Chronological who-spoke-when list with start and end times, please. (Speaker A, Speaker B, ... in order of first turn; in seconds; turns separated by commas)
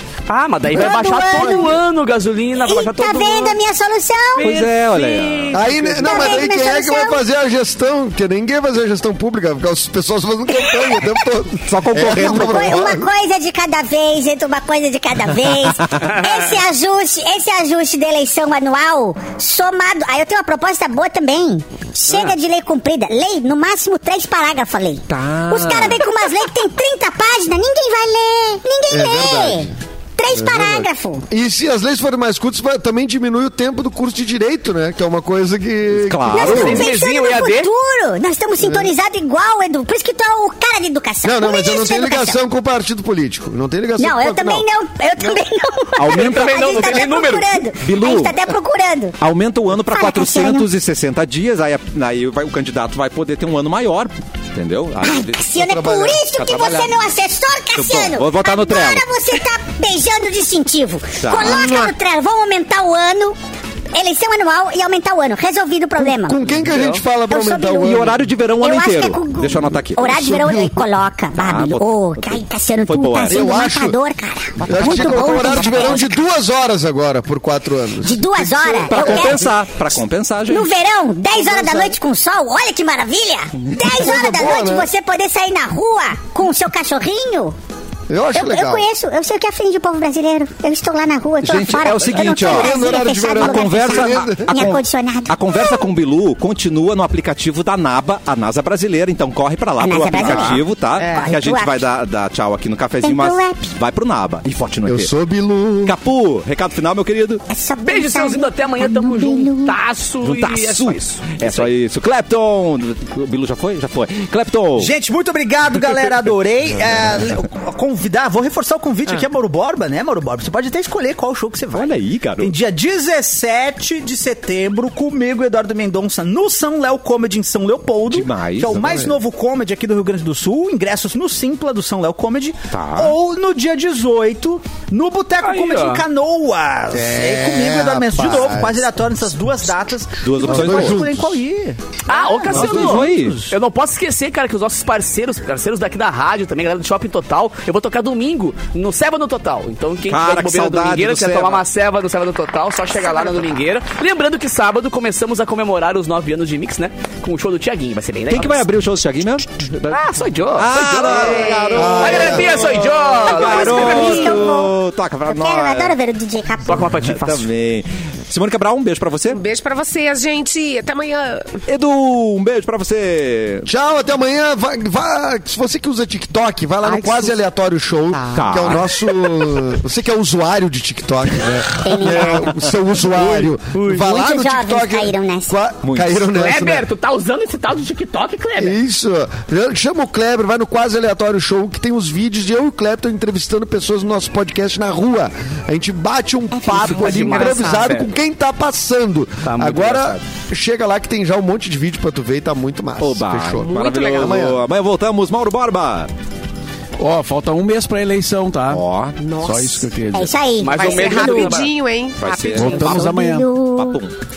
Speaker A: 0.3-3.6, Speaker B: 0.7-1.8, Speaker C: 0.8-1.8, Speaker B: 2.6-4.6, Speaker A: 4.4-6.5, Speaker D: 4.4-5.5, Speaker C: 5.5-13.1, Speaker B: 6.0-7.2, Speaker B: 10.5-11.2, Speaker D: 11.7-12.9, Speaker B: 12.0-31.2, Speaker A: 16.0-16.5, Speaker D: 25.1-26.0, Speaker C: 28.9-29.8, Speaker C: 30.3-36.9, Speaker D: 36.0-36.9, Speaker B: 36.3-42.4, Speaker A: 36.4-37.7, Speaker C: 38.6-38.9, Speaker C: 41.2-44.6, Speaker B: 44.0-49.2, Speaker D: 46.0-47.1, Speaker A: 46.1-47.5, Speaker D: 47.8-48.4, Speaker D: 49.2-57.0, Speaker B: 49.9-50.7, Speaker B: 55.0-63.4, Speaker C: 55.6-56.2, Speaker D: 57.8-59.0, Speaker D: 61.2-61.9, Speaker B: 63.9-66.4, Speaker C: 66.0-68.2, Speaker A: 66.7-67.0, Speaker B: 67.3-68.0, Speaker D: 67.8-70.3, Speaker B: 68.6-76.2, Speaker C: 70.0-70.8, Speaker D: 71.4-73.6, Speaker C: 73.2-74.0, Speaker C: 74.6-79.4, Speaker B: 78.0-79.4, Speaker D: 78.9-80.7, Speaker B: 80.5-87.5, Speaker C: 81.4-81.9, Speaker C: 83.9-84.9, Speaker C: 88.1-88.8, Speaker B: 88.3-95.9, Speaker D: 91.4-105.1, Speaker C: 92.4-94.8, Speaker B: 99.8-101.8, Speaker B: 103.0-103.8, Speaker C: 104.8-106.0, Speaker D: 105.8-107.4, Speaker B: 107.5-109.8, Speaker A: 107.8-111.7, Speaker D: 110.2-114.9, Speaker E: 114.8-143.5, Speaker D: 121.7-122.5, Speaker D: 128.1-129.1, Speaker D: 132.7-133.2, Speaker A: 135.4-136.1, Speaker C: 136.9-138.8, Speaker D: 140.2-141.2, Speaker C: 140.5-141.1, Speaker A: 142.1-158.6, Speaker D: 142.5-143.4, Speaker D: 150.1-151.7, Speaker D: 158.3-159.7, Speaker A: 159.8-164.5, Speaker D: 160.6-165.9, Speaker F: 161.1-162.4, Speaker C: 161.7-162.8, Speaker B: 163.3-164.7, Speaker B: 165.3-166.8, Speaker A: 166.7-167.5, Speaker D: 166.8-169.4, Speaker F: 169.3-171.6, Speaker D: 171.7-173.7, Speaker C: 173.7-186.9, Speaker F: 176.8-177.4, Speaker F: 178.1-178.5, Speaker D: 178.3-178.8, Speaker B: 181.8-182.5, Speaker A: 183.2-184.1, Speaker B: 184.0-185.6, Speaker D: 185.8-186.2, Speaker A: 186.3-188.8, Speaker C: 188.6-204.6, Speaker B: 196.5-197.9, Speaker A: 196.8-198.1, Speaker A: 199.5-200.2, Speaker D: 203.0-206.1, Speaker F: 203.6-204.5, Speaker G: 207.0-208.8, Speaker D: 208.7-209.2, Speaker F: 209.2-209.9, Speaker G: 209.4-210.3, Speaker B: 210.1-211.6, Speaker A: 210.6-211.7, Speaker F: 210.8-212.9, Speaker D: 212.2-213.1, Speaker G: 212.6-213.5, Speaker B: 212.6-214.0, Speaker D: 213.7-214.2